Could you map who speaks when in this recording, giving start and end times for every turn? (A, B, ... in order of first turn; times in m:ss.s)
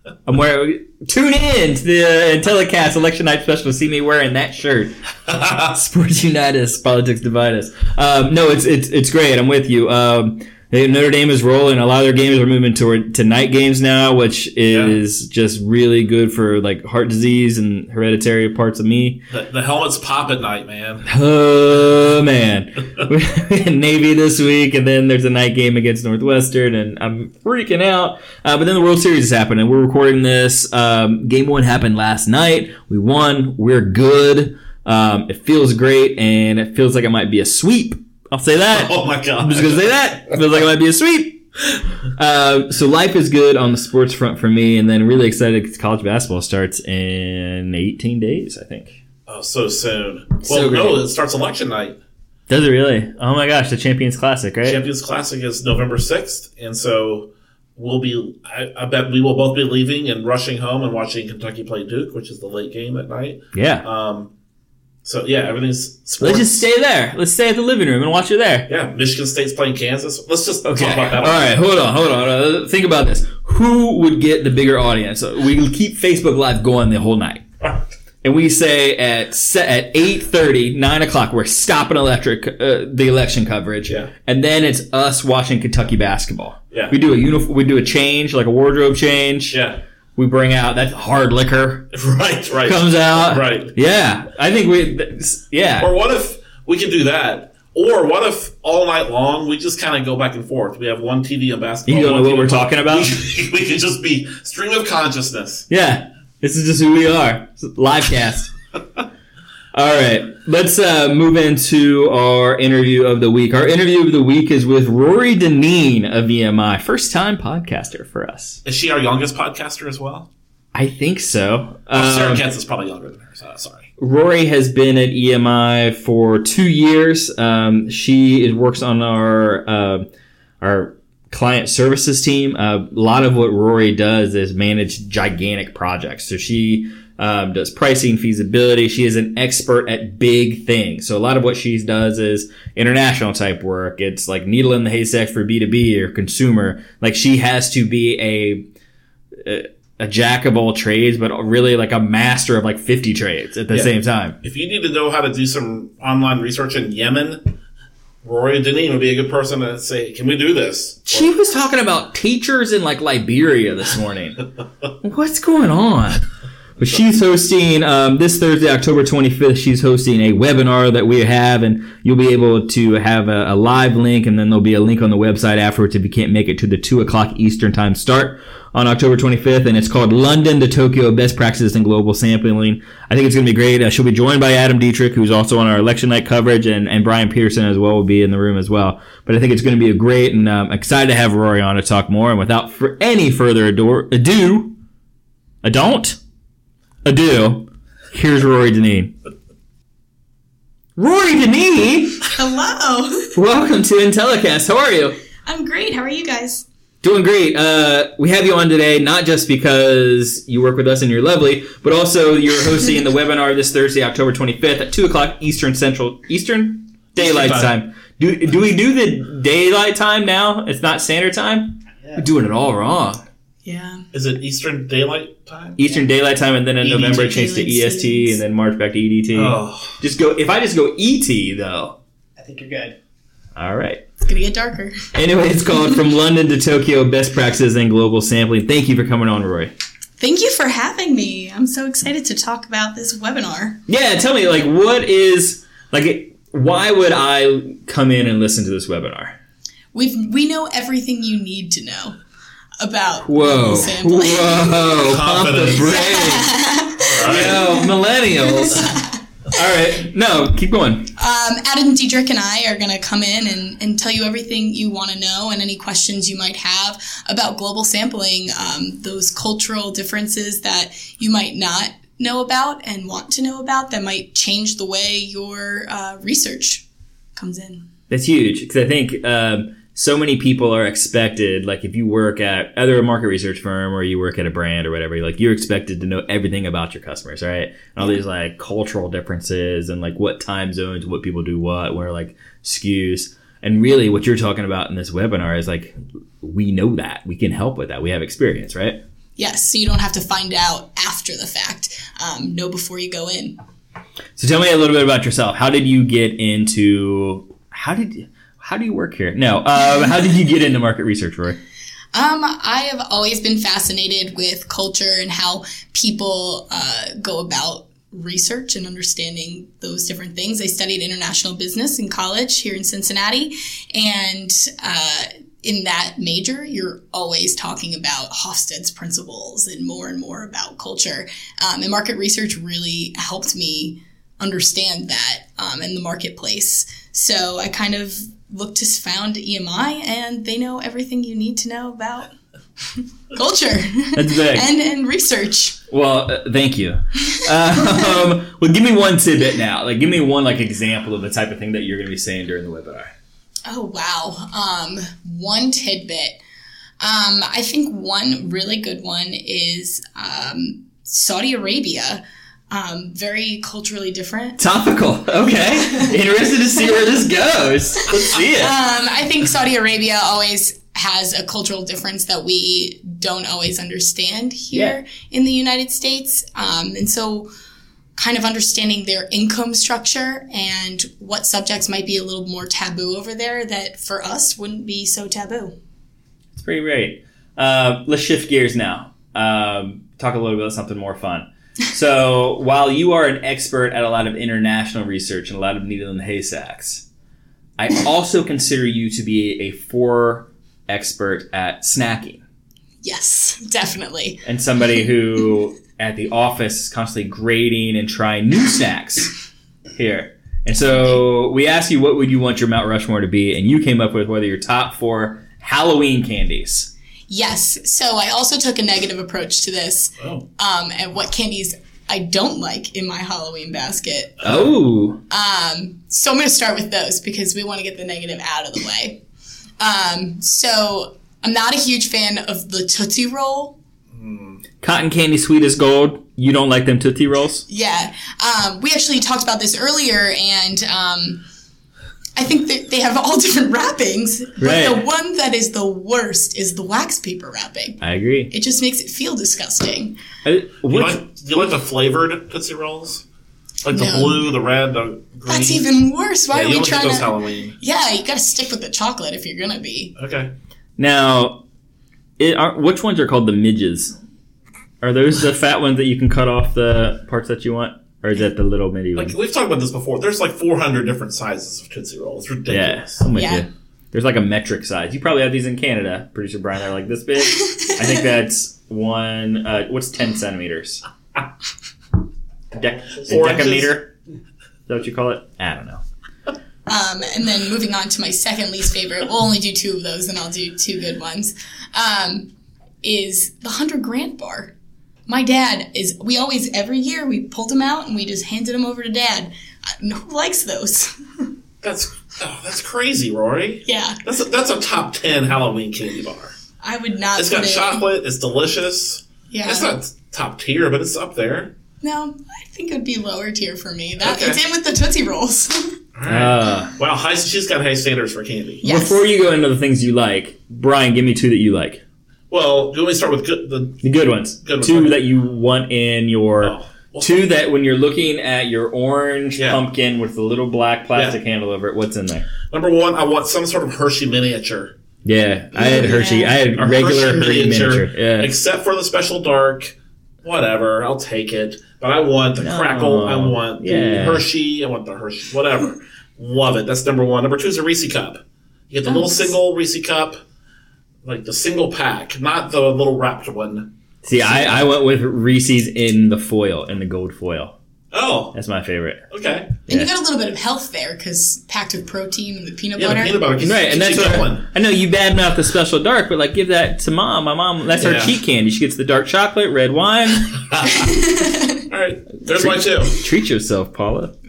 0:00.3-0:19.2 A
0:14.7-0:15.0 B
0:19.3-0:21.1 B
0:21.0-0:41.5 A
0:38.7-0:40.4 B
0:42.2-0:49.0 A
0:49.3-0:52.0 B
0:50.4-0:51.0 A
0:52.5-0:54.8 A
0:54.6-1:04.3 B
1:03.5-1:03.9 A
1:05.0-1:06.7 B
1:06.2-1:08.7 A
1:08.7-1:11.6 B
1:10.6-1:17.5 A
1:18.2-1:29.6 A
1:29.5-1:29.8 B
1:30.2-1:31.9 A
1:31.9-1:33.7 B
1:32.6-1:35.9 A
1:35.8-1:45.7 B
1:41.9-1:43.2 A
1:45.7-1:48.5 A
1:49.7-1:58.6 A
1:58.6-2:00.3 B
2:00.7-2:02.4 A
2:01.9-2:03.9 B
2:04.0-2:10.1 A
2:10.6-2:28.7 A
2:29.4-2:34.4 A
2:33.7-2:37.6 B
2:38.2-2:41.3 B
2:41.1-2:44.4 A
2:45.0-2:46.2 A
2:46.8-3:14.8 A
3:15.6-3:16.2 A
3:17.0-3:19.2 A
3:21.0-3:22.3 A
3:22.3-3:23.4 C
3:23.3-3:25.2 A
3:25.4-3:26.7 C
3:27.0-3:43.2 A
3:37.2-3:37.7 B
3:43.6-3:44.0 C
3:44.1-3:45.8 B
3:45.8-3:52.0 A
3:46.8-3:47.3 B
3:47.1-3:48.4 C
3:49.3-3:50.0 B
3:52.5-3:52.9 C
3:53.6-3:54.0 A
3:54.2-3:55.1 C
3:55.1-3:59.7 A
4:00.2-4:03.8 C
4:03.9-4:09.4 A
4:09.9-4:12.2 C
4:12.8-4:14.9 C
4:13.2-4:16.6 A
4:15.0-4:16.0 B
4:15.6-4:19.1 C
4:17.0-4:17.6 B
4:17.2-4:21.1 A
4:21.2-4:37.8 C
4:38.1-4:59.0 A
4:59.4-5:03.6 C
5:04.4-5:11.6 A
5:12.1-5:42.3 C
5:42.9-5:45.8 C
5:44.2-5:44.7 A
5:45.9-5:53.1 A
5:53.7-5:56.4 C
5:57.0-6:04.6 C
6:04.6-6:08.8 A
6:05.7-6:06.1 C
6:08.3-6:17.5 C
6:14.7-6:15.0 A
6:18.2-6:25.8 C
6:26.5-6:37.0 A
6:37.8-6:42.4 A
6:43.0-6:44.4 C
6:44.4-6:49.3 A
6:49.9-6:56.9 A
6:57.3-7:04.4 C
7:00.2-7:00.4 B
7:04.4-7:05.2 A
7:05.3-7:09.2 C
7:09.8-7:13.8 C
7:14.1-7:14.6 B
7:14.8-7:17.6 A
7:17.7-7:21.4 C
7:22.4-7:30.2 C
7:24.6-7:25.0 A
7:28.0-7:28.5 A
7:30.4-7:31.2 A
7:30.9-7:33.2 B
7:33.8-7:35.9 B
7:33.9-7:34.5 C
7:35.5-7:40.1 C
7:36.5-7:37.8 B
7:40.2-7:40.5 B
7:41.0-7:41.6 A
7:42.4-7:44.2 A
7:45.0-7:49.4 A
7:49.2-7:53.2 B
7:52.7-8:01.0 A
7:53.3-7:53.7 C
7:57.5-7:58.0 C
8:02.7-8:04.1 A
8:03.2-8:04.0 B
8:04.9-8:06.0 A
8:06.9-8:12.5 C
8:13.0-8:14.7 C
8:15.3-8:21.5 C
8:21.8-8:26.6 B
8:23.9-8:24.2 C
8:26.8-8:28.0 C
8:27.4-8:31.7 B
8:29.5-8:29.9 C
8:32.0-8:36.0 C
8:34.2-8:34.6 B
8:36.2-8:38.8 B
8:36.3-8:36.9 A
8:38.8-8:39.3 C
8:38.8-8:42.0 A
8:42.5-8:44.0 B
8:44.0-8:52.5 A
8:44.6-8:45.2 B
8:46.6-8:47.4 B
8:49.6-8:49.8 B
8:52.7-8:54.9 B
8:55.2-8:58.5 A
8:55.7-8:56.6 C
8:56.8-9:10.4 B
9:02.6-9:04.5 A
9:09.1-9:09.5 C
9:11.2-9:13.9 B
9:14.2-9:17.7 A
9:18.1-9:18.6 B
9:18.5-9:19.2 A
9:19.3-9:19.8 B
9:19.9-9:23.4 C
9:23.0-9:24.7 B
9:23.6-9:30.6 A
9:28.0-9:28.4 B
9:30.7-9:31.0 B
9:30.8-9:31.8 C
9:31.9-9:33.2 B
9:32.5-9:34.3 A